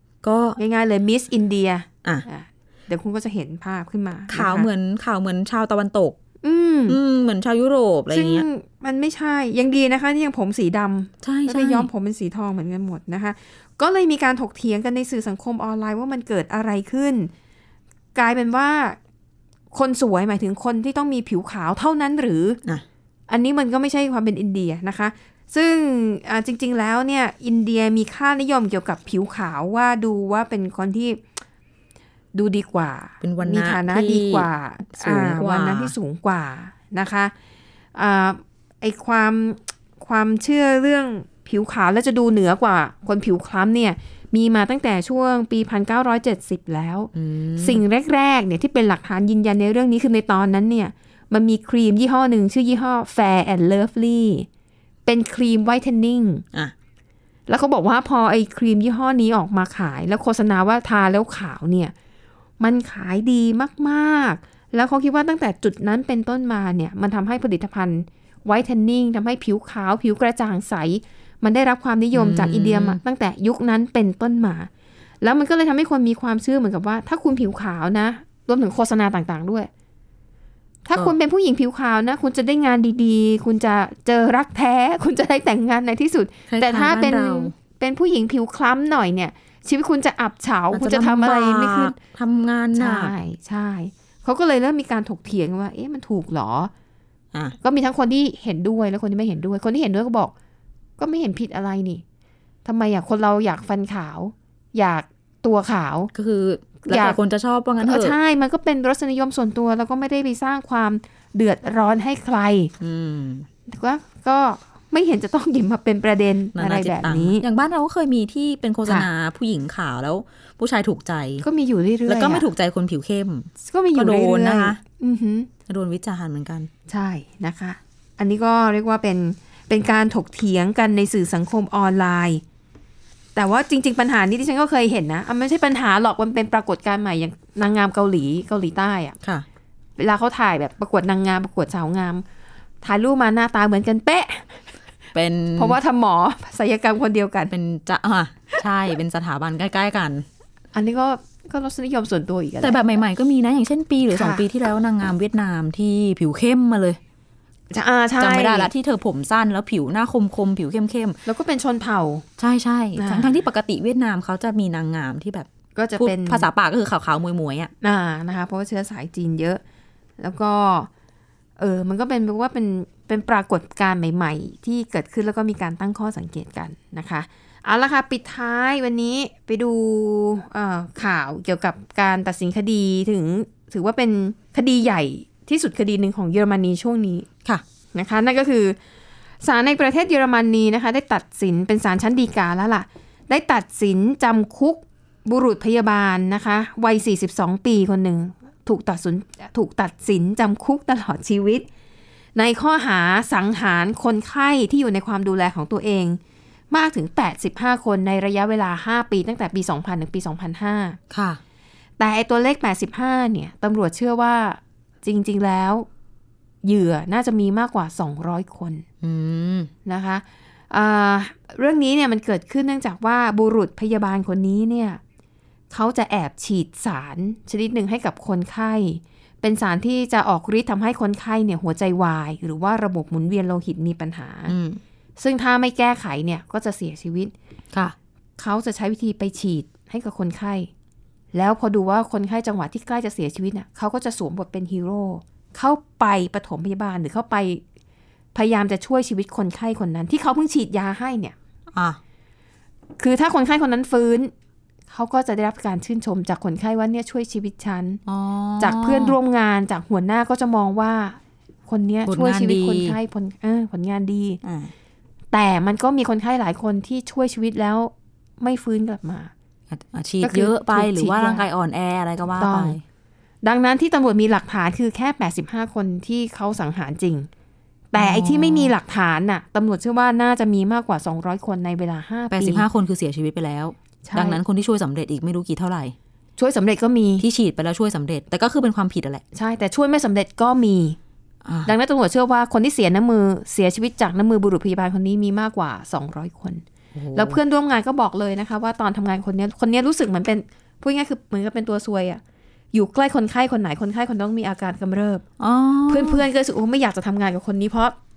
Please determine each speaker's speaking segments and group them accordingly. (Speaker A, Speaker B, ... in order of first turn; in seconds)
Speaker A: 0.2-0.6, 4.3-6.2, 6.9-8.4, 11.2-11.9, 33.2-35.9, 47.1-47.8, 72.1-73.0, 86.5-87.5, 90.7-93.1, 106.1-108.2, 112.8-113.5, 116.5-121.4, 122.0-124.8, 125.7-126.7, 145.1-145.8, 147.5-150.2, 152.6-157.0, 158.2-161.2, 162.4-167.7, 211.1-211.4, 219.0-219.7, 234.5-234.8, 251.7-252.0, 258.1-259.2, 262.1-263.0, 264.4-264.7, 269.7-272.8, 277.9-278.7, 282.3-285.9, 287.2-289.2, 291.4-291.7, 296.9-297.4, 305.4-306.2
Speaker B: 0.6-4.7, 6.4-7.0, 8.1-17.3, 18.1-19.0, 19.7-22.6, 23.3-31.2, 32.3-37.3, 37.9-54.5, 55.0-56.4, 57.5-61.9, 62.6-74.7, 75.2-79.7, 80.8-92.0, 92.7-96.7, 97.6-100.3, 101.0-102.0, 102.6-106.1, 106.8-107.2, 107.8-112.7, 113.7-117.4, 121.4-122.5, 123.6-125.5, 126.9-132.4, 133.3-139.2, 140.0-142.2, 142.8-144.7, 145.6-147.5, 150.7-152.8, 154.1-154.4, 157.7-158.7, 161.2-162.2, 162.9-163.3, 165.7-166.5, 167.8-169.6, 170.2-170.9, 171.6-187.3, 187.9-188.8, 189.4-201.7, 202.3-206.2, 206.7-211.0, 212.0-215.9, 216.6-218.8, 219.8-225.0, 225.7-234.5, 235.2-237.3, 238.4-240.7, 241.3-247.6, 248.3-251.3, 253.0-254.3, 254.9-258.0, 258.6-264.4, 265.3-269.3, 270.2-271.4, 272.4-272.8, 273.4-277.3, 277.9-282.6, 284.0-284.4, 286.4-287.2, 289.3-291.0, 291.6-302.2, 302.7-305.2, 305.9-307.9